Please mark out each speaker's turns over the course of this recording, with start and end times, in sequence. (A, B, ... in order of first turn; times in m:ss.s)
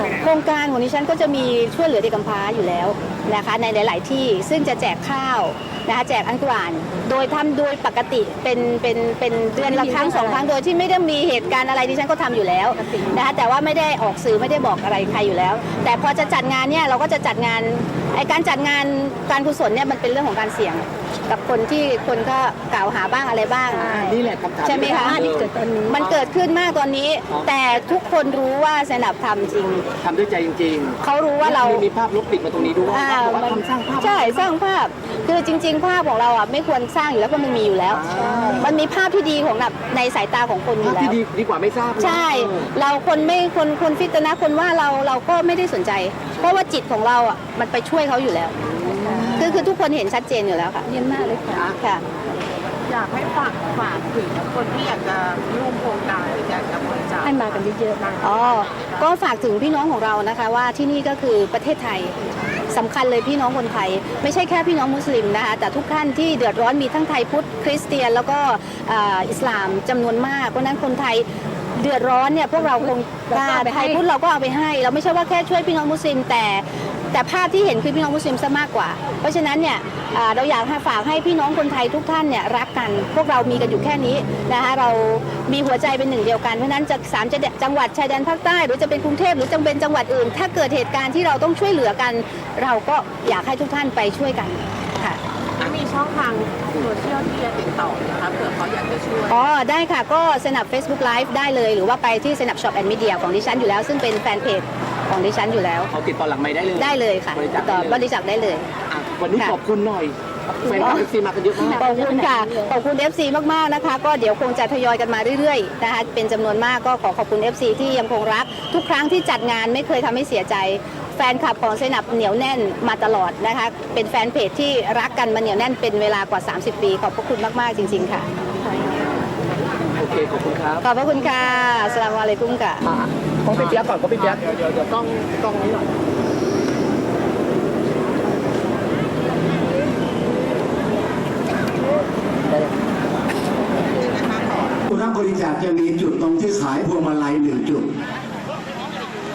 0:00.2-0:24.1 A
0:09.6-0:10.5 B
0:23.8-0:24.1 B
0:23.9-0:25.5 C
0:24.6-0:25.2 A
0:24.8-0:26.2 B
0:25.9-0:29.9 A
0:30.0-0:34.5 C
0:31.0-0:31.9 A
0:32.9-0:38.0 A
0:37.9-0:38.7 C
0:38.6-0:41.2 A
0:40.8-0:42.7 C
0:42.0-0:48.6 A
0:49.1-0:49.4 B
0:49.2-0:49.6 C
0:49.4-0:50.9 A
0:50.9-0:51.7 B
0:51.6-0:52.0 A
0:52.9-0:58.9 D
0:57.2-0:58.2 B
0:58.2-1:02.2 A
1:02.7-1:11.3 A
1:11.8-1:35.2 A
1:12.6-1:14.0 B
1:35.6-1:39.5 D
1:39.3-1:45.9 A
1:45.9-1:48.0 C
1:46.8-1:48.7 A
1:48.9-1:51.9 C
1:50.8-1:51.0 A
1:51.7-1:52.7 B
1:51.8-2:08.3 A
2:10.0-2:10.8 C
2:10.8-2:12.8 A
2:12.9-2:15.3 C
2:24.9-2:27.9 E